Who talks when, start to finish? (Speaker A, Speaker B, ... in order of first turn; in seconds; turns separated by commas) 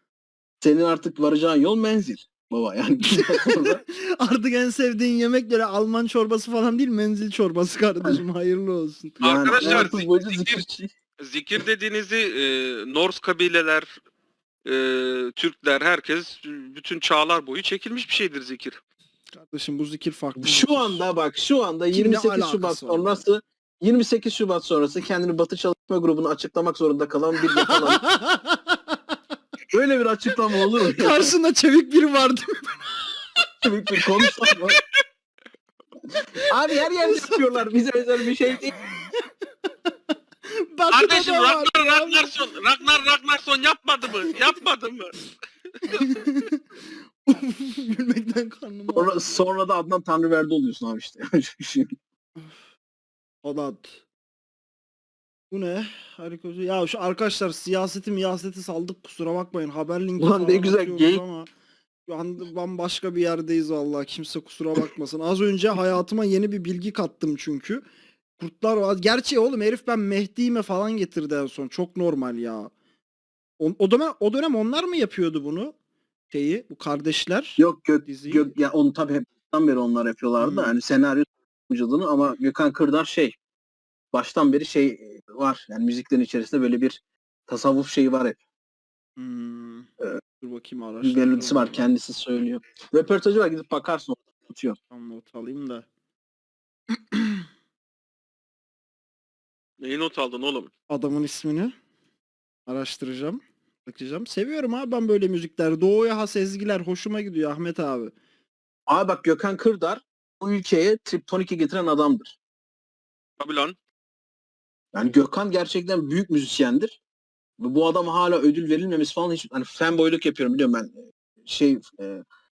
Speaker A: 0.6-3.8, Speaker B: 3.2-9.9, Speaker C: 9.2-10.6, Speaker A: 9.2-10.9, Speaker C: 11.2-14.0, Speaker C: 14.6-18.8, Speaker B: 19.3-21.0, Speaker A: 20.4-28.0, Speaker B: 21.9-23.2, Speaker B: 27.5-29.0, Speaker A: 29.7-31.3, Speaker B: 30.8-32.7, Speaker A: 33.6-34.8, Speaker A: 36.5-38.7, Speaker B: 37.0-37.4, Speaker B: 40.5-42.3, Speaker C: 40.9-45.1, Speaker B: 45.9-46.6, Speaker B: 47.2-49.5, Speaker A: 48.9-51.9, Speaker B: 53.4-54.0, Speaker B: 55.5-61.5, Speaker A: 60.2-61.2, Speaker B: 62.1-67.8, Speaker B: 68.4-72.7, Speaker B: 73.6-75.7, Speaker B: 76.3-78.5, Speaker A: 77.6-83.3, Speaker B: 80.4-80.8, Speaker A: 84.1-88.4, Speaker B: 89.2-91.8, Speaker A: 91.0-94.8, Speaker B: 94.9-95.9, Speaker B: 96.9-97.4, Speaker C: 99.8-100.7, Speaker B: 100.9-101.7, Speaker B: 102.7-108.1, Speaker A: 108.9-112.4, Speaker C: 113.4-113.8, Speaker A: 114.9-117.0, Speaker A: 117.6-122.2